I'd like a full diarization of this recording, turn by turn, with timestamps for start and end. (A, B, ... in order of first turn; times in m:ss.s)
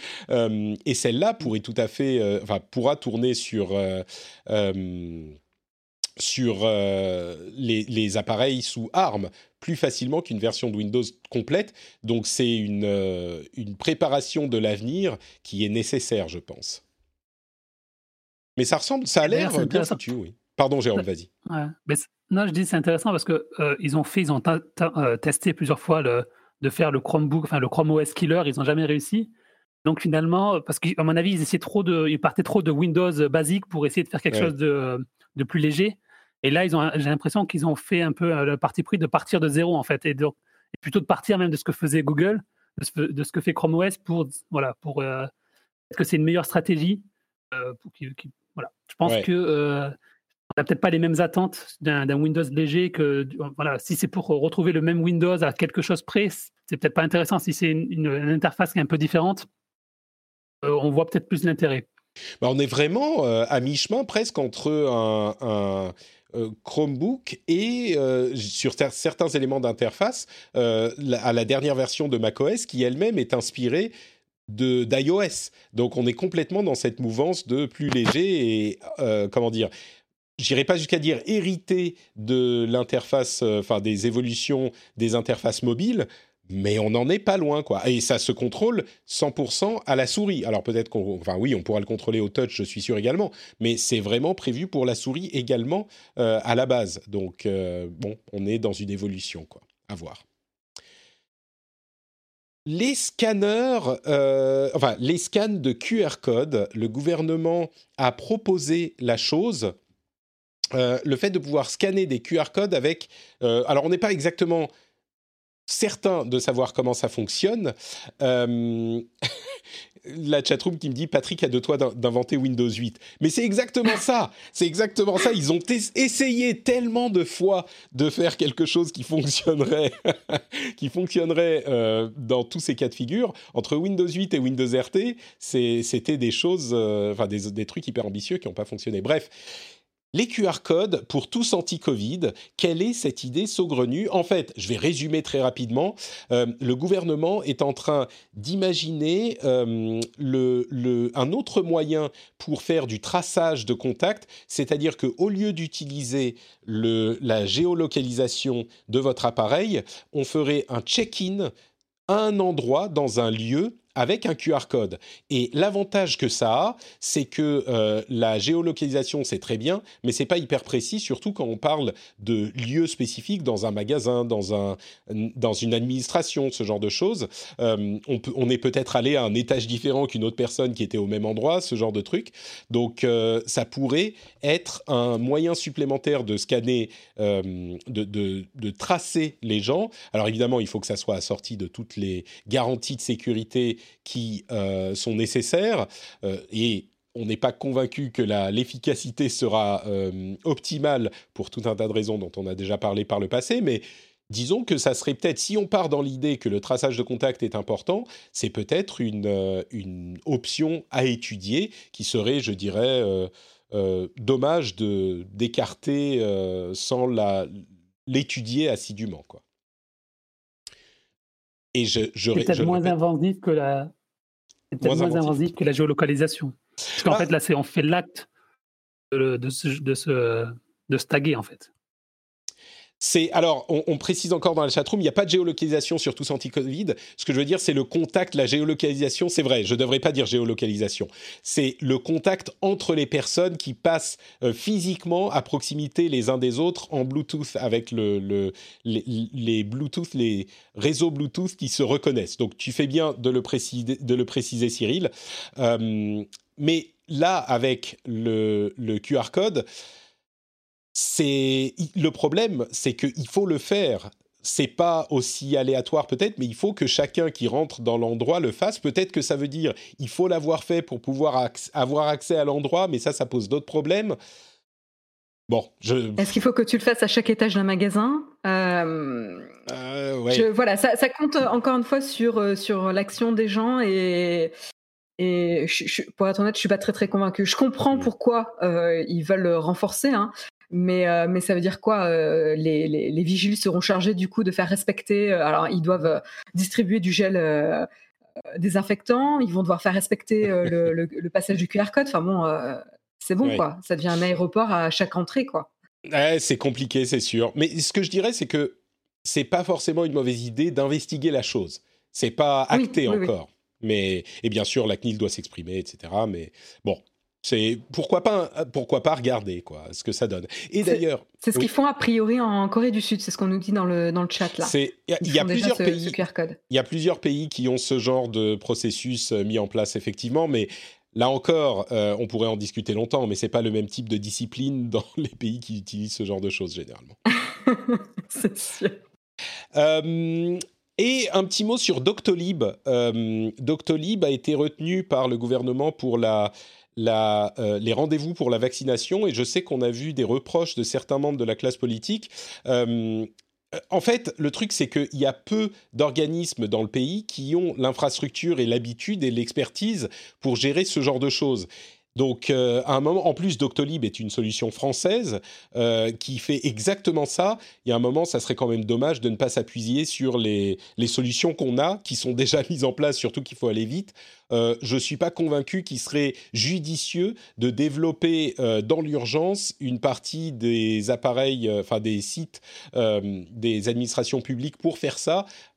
0:00.3-0:05.4 A
0:06.2-0:16.8 A
0:18.6-0:21.3 A
0:19.2-0:20.0 B
0:21.5-0:29.3 B
0:29.8-0:45.3 B
0:45.9-0:49.9 B
0:50.5-0:59.5 B
1:00.6-1:01.9 B
1:02.4-1:13.9 A
1:14.5-1:19.7 A
1:20.4-1:40.2 A
1:42.7-1:49.7 A
1:50.7-1:54.7 A
1:55.7-1:59.1 A
2:00.0-2:19.3 A
2:20.1-2:41.5 A
2:42.1-3:39.4 A
3:41.7-3:42.9 A
3:42.3-3:43.9 B
3:44.7-3:48.3 B
3:44.8-3:45.5 A
3:49.1-3:51.7 B
3:53.0-4:19.6 A
4:20.9-4:34.2 A
4:35.5-4:36.3 A
4:36.2-4:39.5 C
4:39.7-4:40.5 A
4:40.3-4:44.5 C
4:45.2-4:57.9 C
4:58.6-5:05.7 C
5:06.1-5:21.7 A
5:12.7-5:13.3 C
5:20.8-5:26.6 C
5:24.6-5:26.2 A
5:26.7-5:37.2 A
5:37.3-5:39.0 C
5:39.8-5:53.3 A
5:53.9-6:25.5 A